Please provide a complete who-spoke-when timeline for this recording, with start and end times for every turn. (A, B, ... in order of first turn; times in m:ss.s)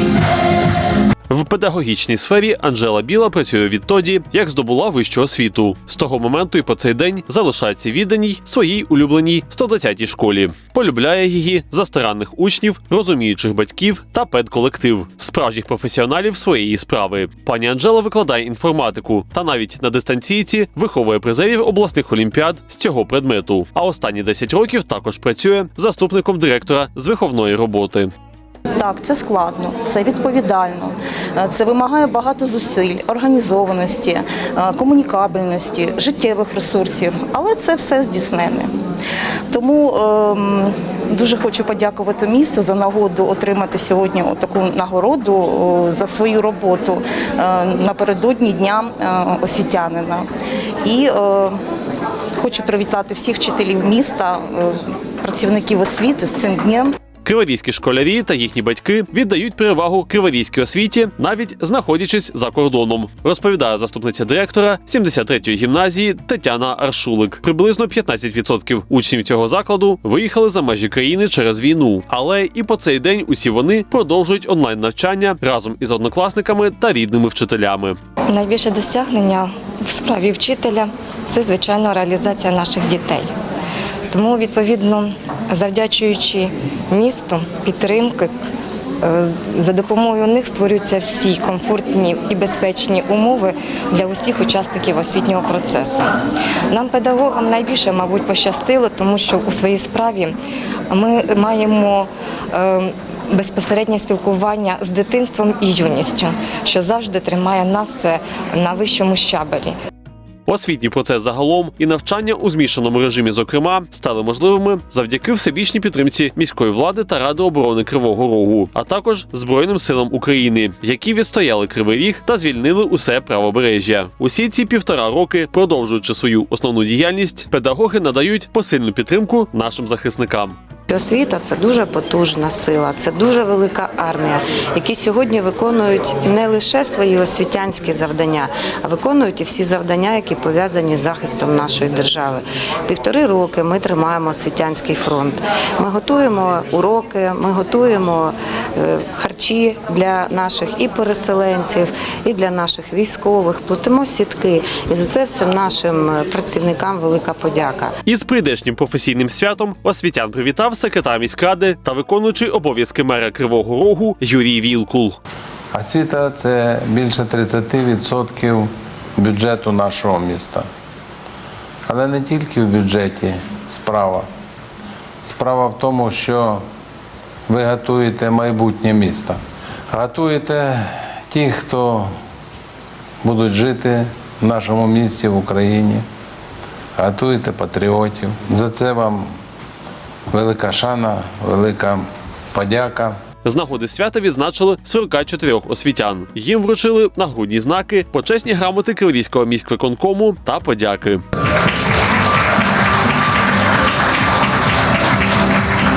0:01.3-0:28.1 A
0:28.8-0:38.7 B
0:39.5-0:50.3 B
0:50.8-0:51.6 B
0:52.4-0:57.0 B
0:57.2-1:18.0 A
1:18.3-1:23.3 C
1:24.1-1:28.3 C
1:29.0-1:36.1 C
1:36.7-1:40.3 C
1:40.9-1:49.8 C
1:50.5-2:10.6 A
2:10.9-2:37.9 D
2:38.1-2:45.2 A
2:45.7-2:50.6 E
2:51.9-2:54.3 E
2:55.2-2:56.6 E
2:57.5-2:59.4 E
2:59.9-3:02.1 E
3:03.2-3:06.0 E
3:07.0-3:09.3 E
3:10.3-3:13.2 E
3:13.4-3:21.2 A